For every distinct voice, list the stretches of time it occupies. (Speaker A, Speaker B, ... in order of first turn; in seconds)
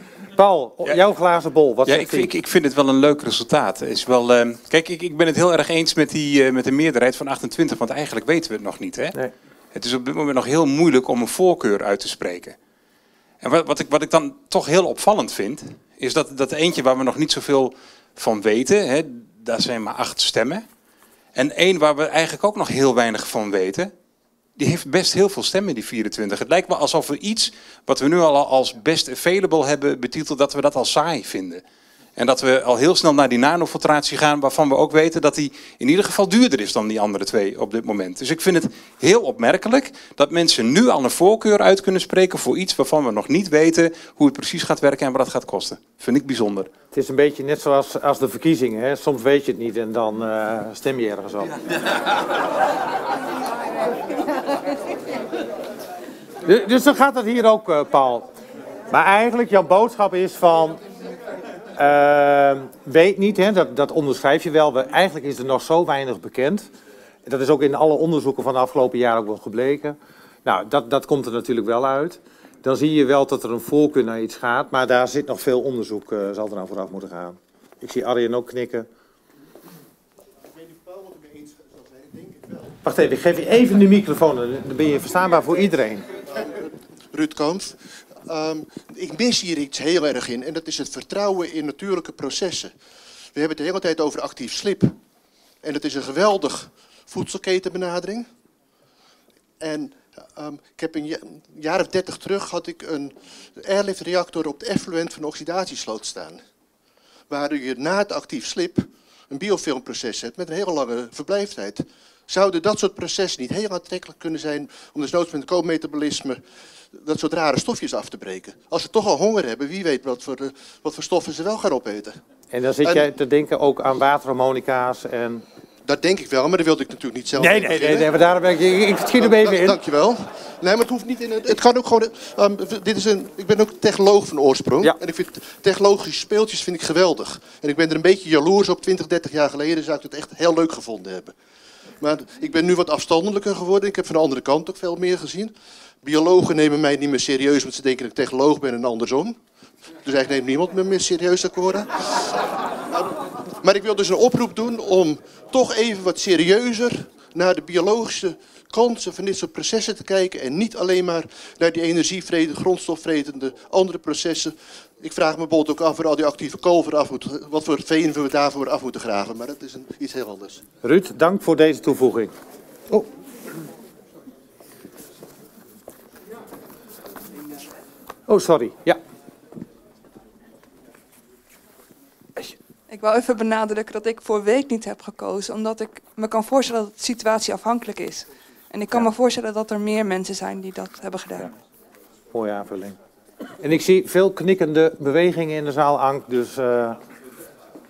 Speaker A: 0.3-2.3, 46.9-51.5, 56.4-58.3, 58.9-60.8, 61.7-66.7, 67.2-78.9, 82.8-86.1, 122.5-125.5, 127.4-129.8, 170.8-172.3, 178.3-179.0, 192.3-193.0, 193.6-197.0
Speaker B: 1.9-9.2, 9.7-12.6, 13.4-20.6, 21.3-23.9, 24.6-31.6, 32.1-46.7
Speaker C: 86.4-92.7, 93.3-95.0, 95.6-98.3, 99.6-106.4, 107.3-122.2, 125.8-128.2, 129.2-141.3, 142.0-149.4, 150.0-170.6
Speaker D: 182.9-191.5